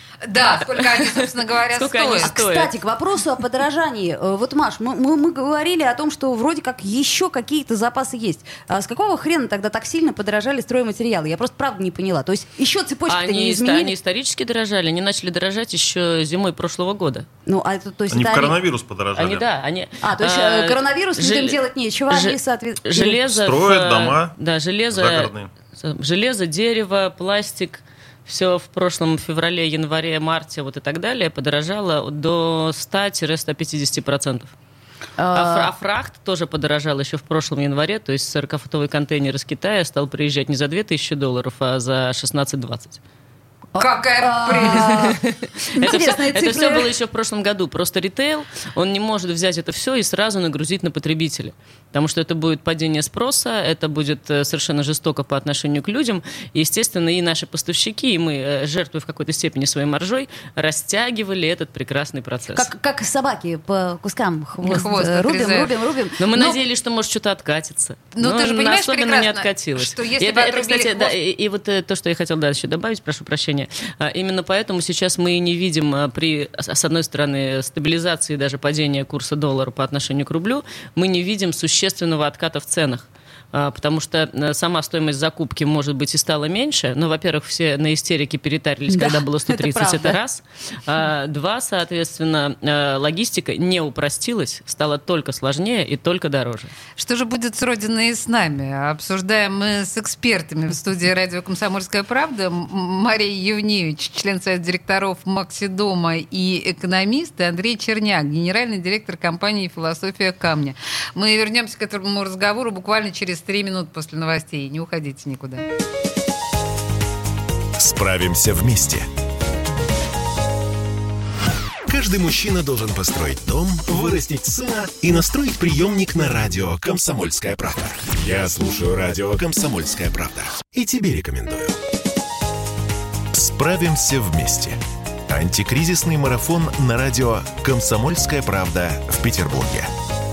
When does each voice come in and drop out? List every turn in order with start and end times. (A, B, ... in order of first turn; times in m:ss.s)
0:00.3-0:02.3 A
0:00.7-0:02.7 B
0:02.2-0:13.9 C
0:13.1-0:17.3 B
0:17.5-0:18.6 C
0:18.1-0:19.5 D
0:19.2-0:34.5 B
0:20.0-0:23.2 C
0:23.2-0:24.4 D
0:24.9-0:25.5 D
0:35.2-0:35.7 C
0:35.3-0:43.0 B
0:43.7-0:45.2 C
0:43.8-0:45.0 A
0:44.9-1:02.7 B
0:45.8-0:46.9 C
1:02.5-1:06.6 C
1:04.6-1:05.8 A
1:06.2-1:36.7 B
1:08.2-1:11.2 A
1:28.9-1:30.2 C
1:37.0-1:55.7 A
1:57.8-1:59.1 E
2:01.9-2:11.8 E
2:13.3-2:19.9 E